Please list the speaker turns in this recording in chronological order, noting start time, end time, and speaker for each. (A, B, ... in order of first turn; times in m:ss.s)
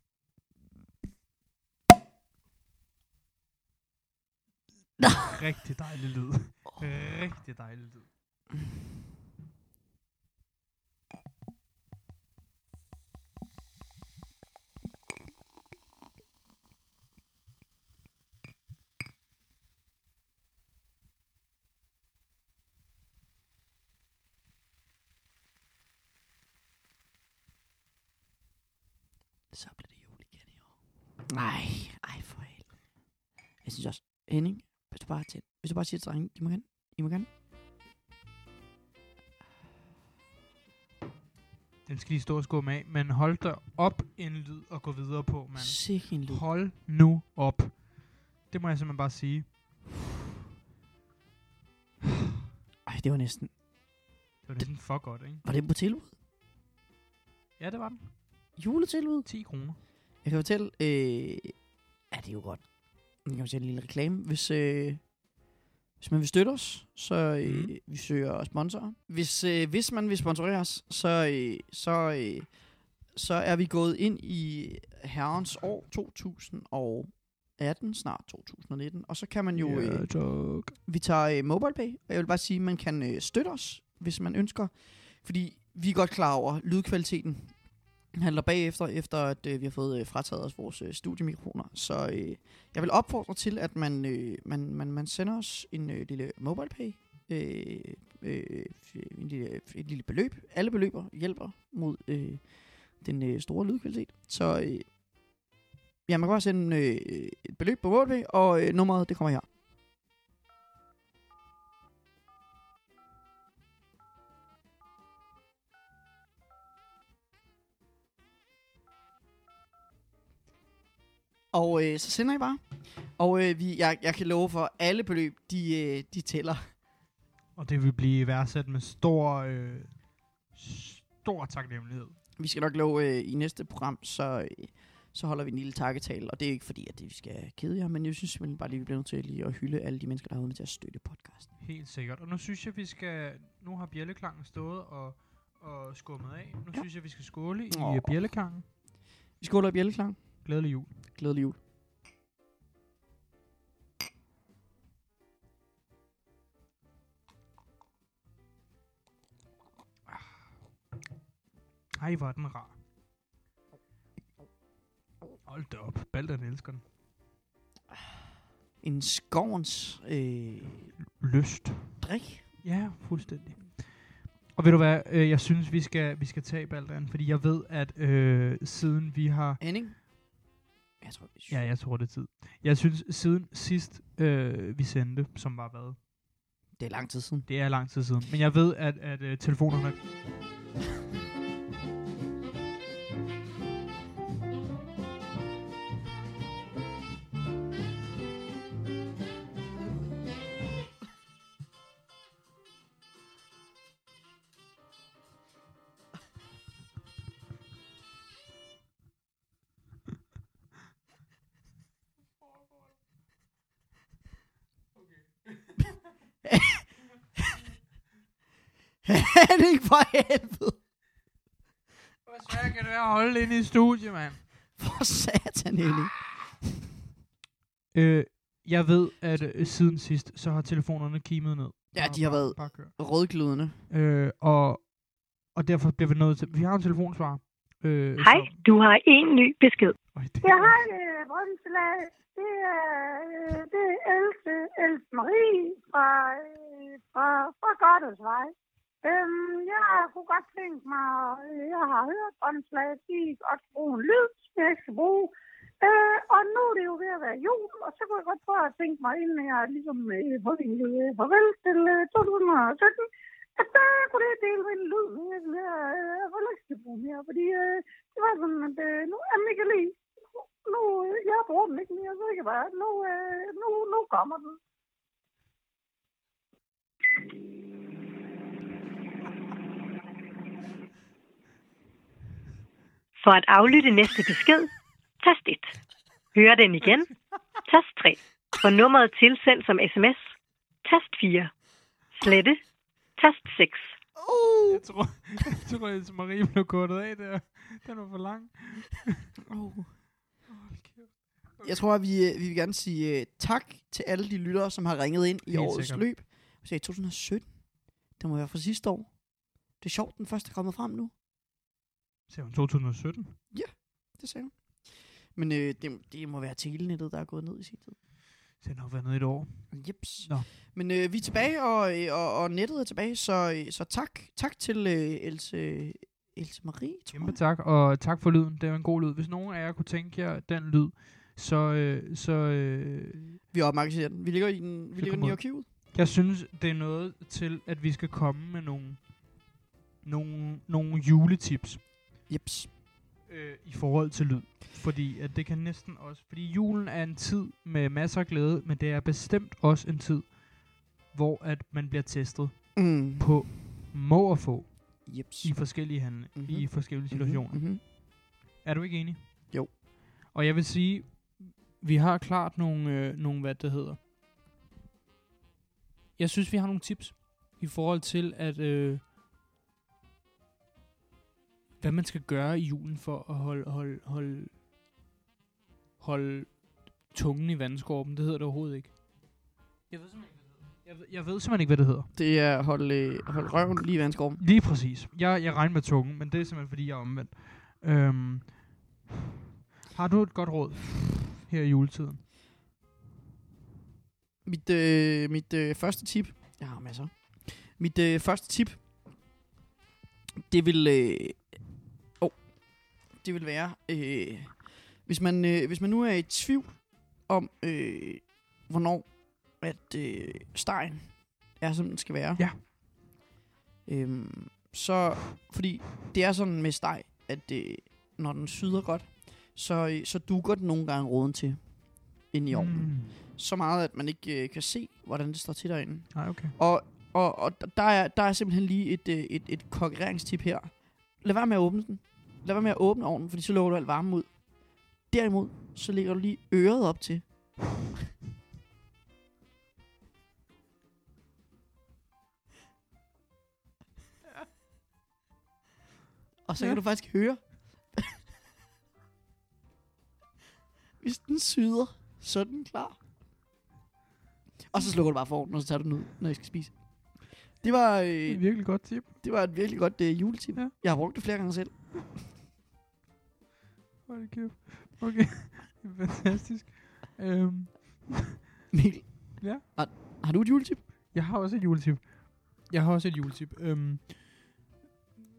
0:05.0-0:05.4 A
0:05.2-0:08.1 B
0:29.5-0:30.6 A
0:31.3-0:32.7 A
0:33.6-0:37.3 A
0:41.9-0:49.6 B
0:45.6-0:46.4 A
0:52.8-0:53.6 A
0:54.4-0:55.4 B
0:55.4-0:56.1 A
0:57.6-0:58.1 B
0:58.6-0:59.3 A
0:59.2-0:59.8 B
1:00.2-1:01.6 A
1:02.1-1:05.1 A
1:06.0-1:44.9 A
1:07.4-1:07.8 B
1:19.6-1:20.8 B
1:46.1-1:49.5 A
2:01.5-2:06.6 A
2:07.6-2:12.2 B
2:12.4-2:21.5 A
2:21.6-2:28.6 B
2:27.7-2:28.1 A
2:29.4-2:30.4 A
2:30.4-2:30.9 B
2:31.1-2:31.6 A
2:42.0-2:42.8 B
2:45.5-2:46.8 B
2:48.8-2:51.0 A
2:51.0-2:52.0 B
2:52.0-2:52.5 A
2:52.6-2:59.6 B
2:59.6-3:00.1 A
3:01.0-3:01.6 A
3:01.5-3:06.0 B
3:06.8-3:07.5 A
3:07.5-3:10.0 B
3:35.0-3:35.2 B
3:36.4-3:37.4 A
3:39.0-3:40.8 A
3:42.2-3:44.4 B
3:44.8-3:46.3 A
3:47.9-3:53.0 B
3:51.9-3:53.8 A
3:53.9-3:58.6 B
3:58.2-4:00.0 C
4:00.1-4:00.8 B
4:00.4-4:34.6 D
4:43.2-4:45.8 C
4:46.3-4:47.1 C
4:47.6-4:51.6 C
4:52.1-4:52.6 C
4:53.2-4:53.9 C
4:54.1-4:54.8 A
4:54.7-4:59.3 B
4:59.5-5:00.0 A
5:00.5-5:01.8 B
5:01.6-5:11.1 A
5:05.5-5:06.1 B
5:12.3-5:13.4 B
5:13.5-5:18.0 A
5:18.6-5:20.5 B
5:19.7-5:27.4 A
5:27.1-5:33.4 B
5:33.5-5:35.6 A
5:35.0-5:39.1 B
5:40.0-5:41.9 B
5:42.3-5:42.7 A
5:43.3-5:57.9 B
5:52.8-5:53.3 A
5:55.1-5:57.8 A
5:58.6-5:59.5 B
6:00.3-6:04.0 B
6:06.2-6:09.1 B
6:11.8-6:14.6 B
6:16.0-6:19.0 B
6:19.9-6:22.1 B
6:22.1-6:24.4 A
6:24.4-6:28.7 B
6:29.9-6:32.2 B
6:34.4-6:38.8 A
6:40.5-6:52.5 A
6:53.9-7:17.9 A
7:02.5-7:03.2 B
7:06.1-7:06.5 B
7:26.4-7:28.2 A
7:31.0-7:33.0 A
7:34.7-7:42.2 A
7:38.3-7:39.1 B
7:44.1-7:48.2 B
7:48.7-7:50.8 A
7:49.4-7:49.6 B
7:51.1-7:54.6 B